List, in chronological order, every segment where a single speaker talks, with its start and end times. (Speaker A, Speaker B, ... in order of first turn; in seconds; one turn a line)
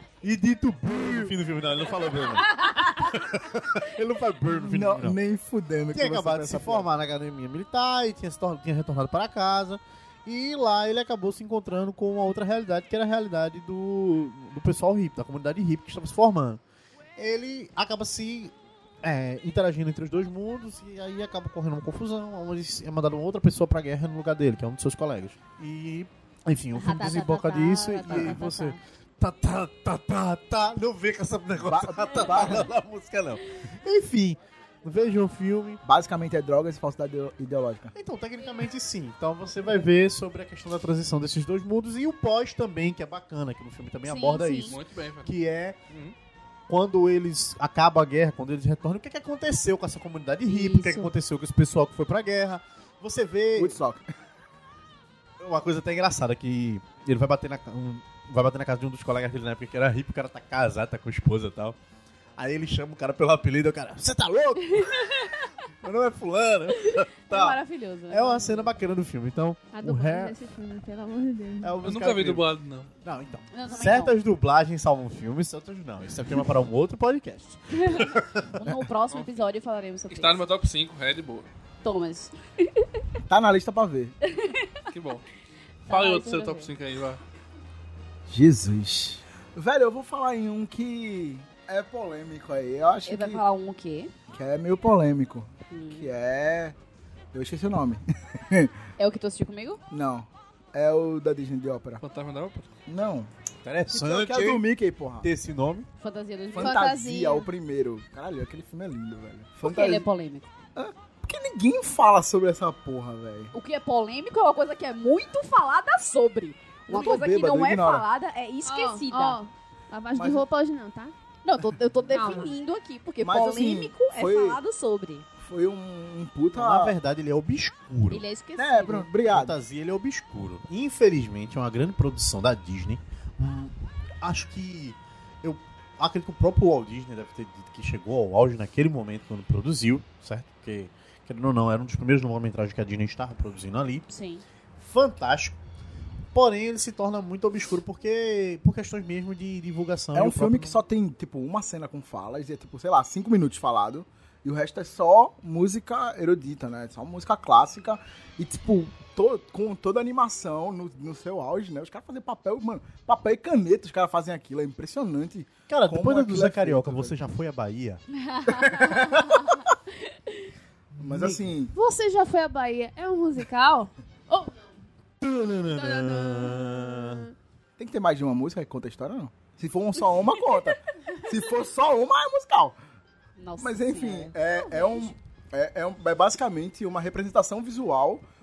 Speaker A: 0.2-5.2
Speaker B: 0.9-1.3
Speaker B: 4.5-6.9
Speaker A: 5.9-16.6
Speaker A: 17.2-35.8
Speaker C: 26.8-28.8
Speaker B: 31.6-32.7
Speaker B: 35.8-37.9
Speaker A: 38.0-45.8
Speaker C: 44.0-44.8
Speaker D: 44.7-45.3
Speaker D: 45.9-46.1
Speaker A: 46.7-53.8
Speaker C: 50.5-51.1
Speaker B: 53.6-54.1
Speaker A: 55.4-61.8
Speaker A: 62.4-70.3
Speaker C: 64.8-65.2
Speaker C: 67.3-68.7
Speaker E: 69.7-71.8
Speaker A: 71.6-72.5
Speaker D: 71.8-72.9
Speaker A: 73.0-78.5
Speaker C: 73.5-74.2
Speaker C: 77.8-80.4
Speaker D: 79.1-79.4
Speaker D: 80.1-81.5
Speaker C: 81.8-82.9
Speaker B: 83.3-84.2
Speaker C: 84.3-84.8
Speaker D: 84.9-85.2
Speaker C: 85.9-86.7
Speaker D: 85.9-87.2
Speaker B: 88.3-93.4
Speaker C: 93.1-94.1
Speaker B: 94.3-96.8
Speaker C: 95.7-96.1
Speaker B: 97.3-98.7
Speaker C: 99.0-99.8
Speaker B: 99.9-102.0
Speaker D: 102.0-102.7
Speaker B: 102.9-103.3
Speaker A: 103.7-104.6
Speaker B: 103.9-105.3
Speaker A: 105.2-105.9
Speaker C: 106.0-106.9
Speaker B: 106.5-110.1
Speaker E: 106.6-107.5
Speaker C: 109.6-110.5
Speaker B: 110.8-113.5
Speaker C: 113.5-119.4
Speaker B: 116.9-118.1
Speaker E: 118.7-121.1
Speaker B: 120.2-120.5
Speaker C: 121.5-125.3
Speaker E: 122.1-122.5
Speaker B: 123.2-124.6
Speaker B: 125.4-127.0
Speaker A: 126.5-128.2
Speaker C: 128.1-129.1
Speaker B: 128.6-129.6
Speaker A: 129.3-144.1
Speaker C: 144.1-144.4
Speaker A: 144.8-145.6
Speaker A: 146.3-150.8
Speaker B: 150.1-167.2
Speaker A: 165.7-168.0
Speaker C: 168.1-169.7
Speaker B: 168.5-169.4
Speaker A: 170.9-171.4
Speaker B: 171.0-171.7
Speaker E: 171.7-174.8
Speaker A: 175.2-177.3
Speaker E: 175.7-177.3
Speaker B: 177.8-182.8
Speaker C: 183.4-184.4
Speaker B: 183.6-188.2
Speaker E: 184.5-185.1